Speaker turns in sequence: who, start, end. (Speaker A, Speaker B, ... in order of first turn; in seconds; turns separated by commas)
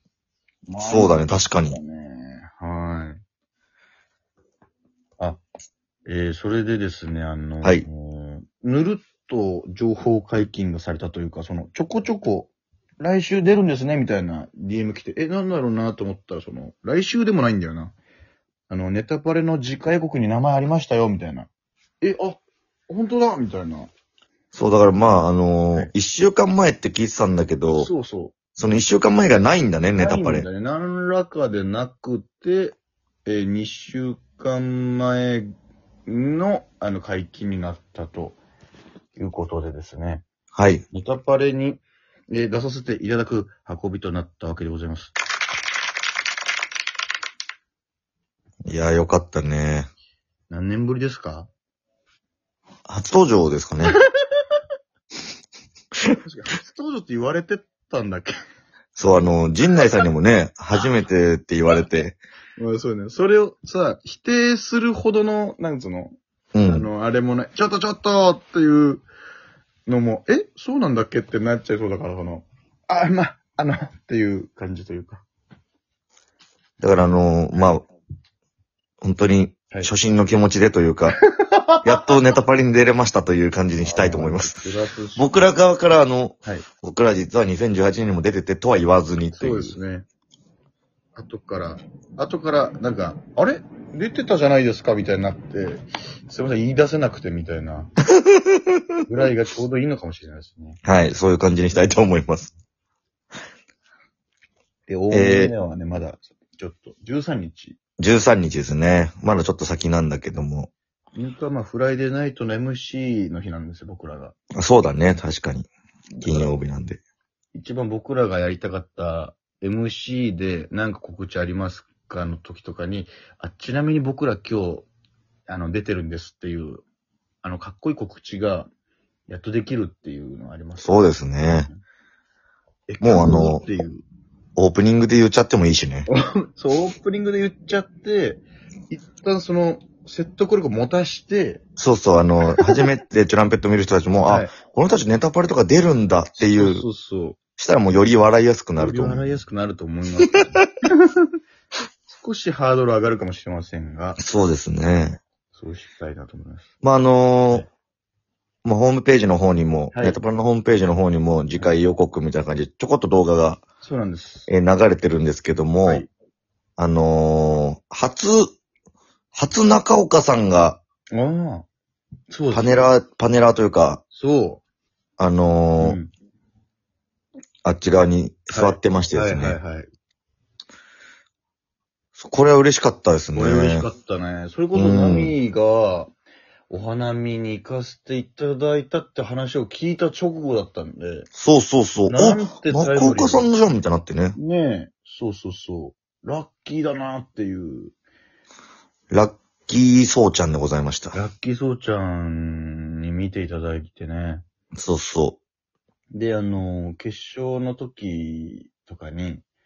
Speaker A: 0.7-3.2, Speaker B: 0.8-1.8, Speaker A: 6.0-17.9, Speaker A: 18.7-21.5, Speaker A: 22.0-23.9, Speaker B: 24.5-27.9, Speaker A: 27.7-28.4, Speaker B: 28.6-30.5, Speaker A: 29.9-35.5, Speaker A: 36.0-38.4, Speaker A: 39.1-40.2, Speaker B: 40.5-40.8, Speaker A: 40.9-45.1, Speaker B: 48.7-49.9, Speaker A: 50.5-51.5, Speaker B: 52.9-53.9, Speaker A: 56.2-58.3, Speaker B: 59.0-62.2, Speaker A: 62.6-69.0, Speaker B: 66.5-66.9, Speaker A: 69.9-75.2, Speaker B: 76.8-77.8, Speaker B: 79.0-81.2, Speaker A: 81.1-81.8, Speaker B: 81.8-84.6, Speaker A: 83.8-85.3, Speaker B: 85.2-89.7, Speaker A: 89.4-90.0, Speaker A: 91.1-97.9, Speaker A: 99.0-100.8, Speaker B: 100.8-102.5, Speaker A: 104.9-107.8, Speaker B: 105.1-105.5, Speaker B: 108.0-110.7, Speaker A: 111.1-114.3, Speaker B: 114.6-115.7, Speaker A: 116.1-116.6, Speaker B: 116.2-117.0, Speaker A: 117.5-124.9, Speaker A: 125.5-126.8, Speaker A: 127.4-128.7, Speaker A: 129.3-131.8, Speaker B: 130.8-131.7, Speaker A: 132.9-134.0, Speaker B: 133.0-133.7, Speaker B: 134.6-136.1, Speaker A: 136.1-141.6, Speaker B: 141.8-146.8, Speaker A: 144.2-144.5, Speaker A: 146.4-147.4, Speaker B: 147.6-149.3, Speaker A: 148.8-151.3, Speaker A: 152.1-154.2, Speaker B: 154.2-155.2, Speaker A: 155.5-156.7, Speaker B: 156.8-157.7, Speaker B: 158.6-163.6, Speaker A: 159.9-160.2, Speaker A: 163.8-164.5, Speaker B: 164.5-166.0, Speaker B: 166.8-168.5, Speaker B: 169.3-170.8, Speaker A: 171.1-171.7, Speaker A: 172.3-172.9, Speaker B: 172.5-174.0, Speaker A: 174.1-174.6, Speaker B: 175.2-176.0, Speaker A: 175.8-176.1, Speaker B: 177.6-179.6, Speaker A: 178.5-179.9, Speaker B: 182.2-183.9, Speaker A: 183.3-186.1, Speaker B: 184.7-185.3, Speaker A: 186.7-191.3, Speaker B: 191.3-194.4, Speaker A: 192.1-193.5, Speaker A: 194.3-197.9, Speaker B: 199.1-201.2, Speaker A: 201.1-204.4, Speaker B: 204.7-205.4, Speaker A: 206.1-209.4